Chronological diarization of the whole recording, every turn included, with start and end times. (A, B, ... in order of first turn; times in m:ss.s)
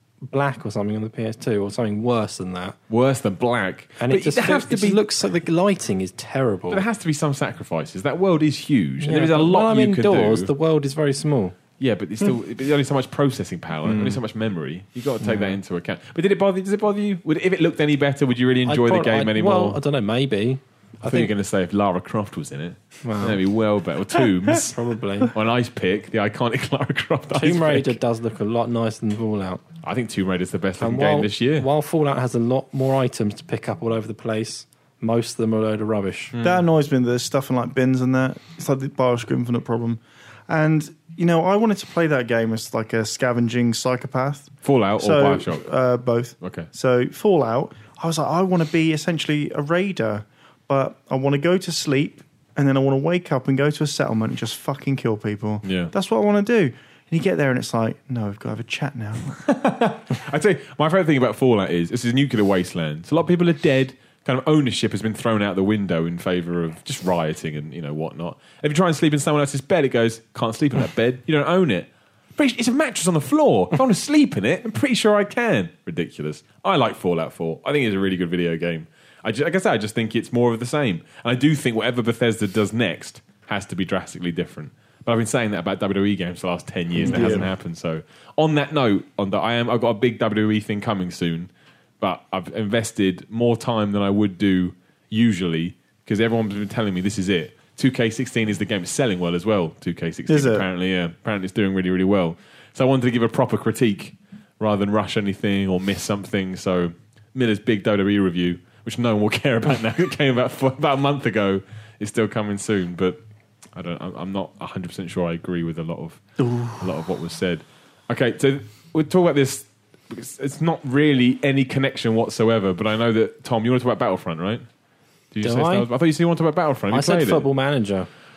0:00.3-0:02.8 A
0:02.9-0:05.0 B
0:04.0-0:06.8 A
0:06.7-0:10.5 B
0:09.0-0:11.5 A
0:11.8-0:19.8 B
0:13.8-0:14.2 A
0:15.2-0:15.6 A
0:18.6-0:21.3 A
0:21.0-0:28.0 B
0:23.0-0:23.4 A
0:24.5-0:25.3 A
0:27.3-0:29.6 A
0:29.8-0:31.7 B
0:30.8-0:36.3 A
0:36.3-0:36.6 B
0:36.4-0:59.2 C
0:44.6-0:45.7 B
0:46.4-0:46.7 B
0:55.6-0:55.9 B
0:59.3-1:53.2 B
1:27.0-1:27.5 C
1:27.0-1:27.4 A
1:40.3-1:40.6 C
1:53.7-2:04.6 B
1:56.4-1:56.8 C
2:05.3-2:07.4 B
2:05.4-2:05.9 A
2:06.9-2:08.1 A